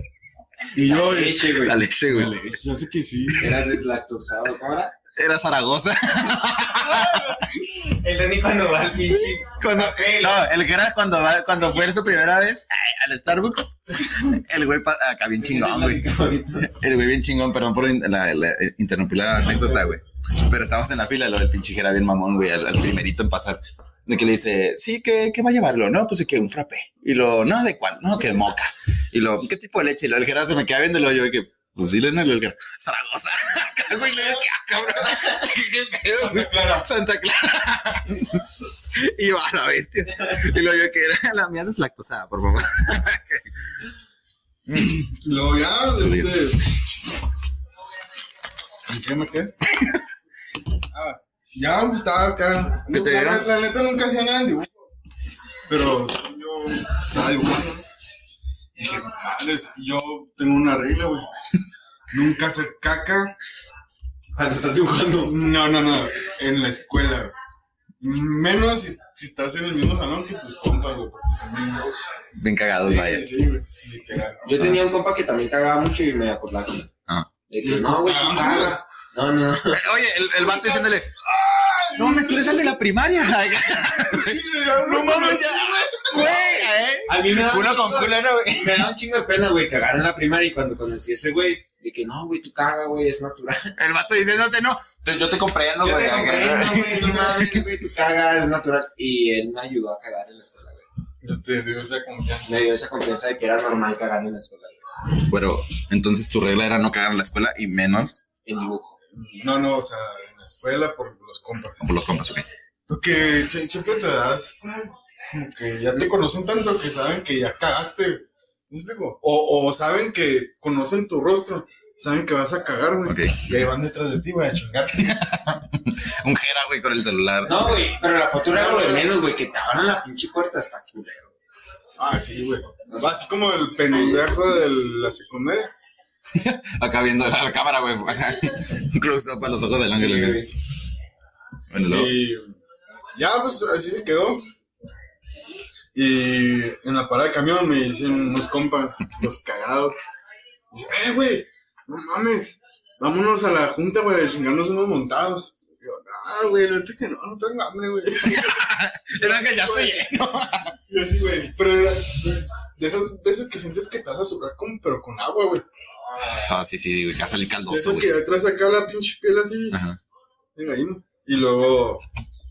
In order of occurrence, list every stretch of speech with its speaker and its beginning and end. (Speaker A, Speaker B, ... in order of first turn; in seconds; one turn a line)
Speaker A: 0.7-3.6
Speaker B: 0.8-1.8
Speaker C: 1.6-2.4
Speaker B: 3.4-4.9
Speaker C: 5.1-7.4
Speaker B: 6.7-10.4
Speaker C: 9.4-16.0
Speaker B: 15.4-16.7
Speaker C: 16.6-43.8
Speaker A: 36.1-36.8
Speaker C: 44.7-45.0
Speaker A: 44.8-46.9
Speaker C: 46.0-46.4
Speaker A: 48.9-49.5
Speaker C: 49.6-50.0
Speaker A: 50.9-54.9
Speaker C: 52.9-53.5
Speaker A: 55.7-57.9
Speaker A: 58.8-61.3
Speaker A: 62.1-63.4
Speaker B: 64.3-65.3
Speaker A: 65.3-67.3
Speaker A: 68.0-72.0
Speaker C: 72.3-73.2
Speaker A: 72.8-74.8
Speaker B: 74.4-76.9
Speaker B: 77.5-79.9
Speaker A: 77.6-78.8
Speaker C: 79.7-81.1
Speaker A: 80.4-82.7
Speaker C: 82.0-88.8
Speaker A: 83.8-86.7
Speaker B: 86.2-93.7
Speaker C: 93.8-97.7
Speaker B: 95.8-100.8
Speaker A: 101.2-102.5
Speaker B: 102.5-104.8
Speaker C: 105.3-108.2
Speaker B: 108.5-109.0
Speaker A: 109.2-111.8
Speaker C: 111.8-112.5
Speaker A: 112.9-125.2
Speaker C: 123.0-123.4
Speaker C: 124.9-127.9
Speaker B: 127.4-131.3
Speaker A: 128.5-129.1
Speaker A: 132.0-135.7
Speaker B: 132.9-133.2
Speaker C: 136.3-140.4
Speaker B: 139.9-140.5
Speaker C: 141.7-142.1
Speaker A: 141.9-142.5
Speaker A: 143.1-144.4
Speaker A: 145.9-149.9
Speaker A: 150.7-158.6
Speaker C: 158.2-160.8
Speaker A: 159.2-159.8
Speaker B: 159.5-159.9
Speaker A: 160.9-165.6
Speaker C: 166.3-168.1
Speaker A: 167.7-169.8
Speaker C: 169.7-170.0
Speaker A: 170.5-172.0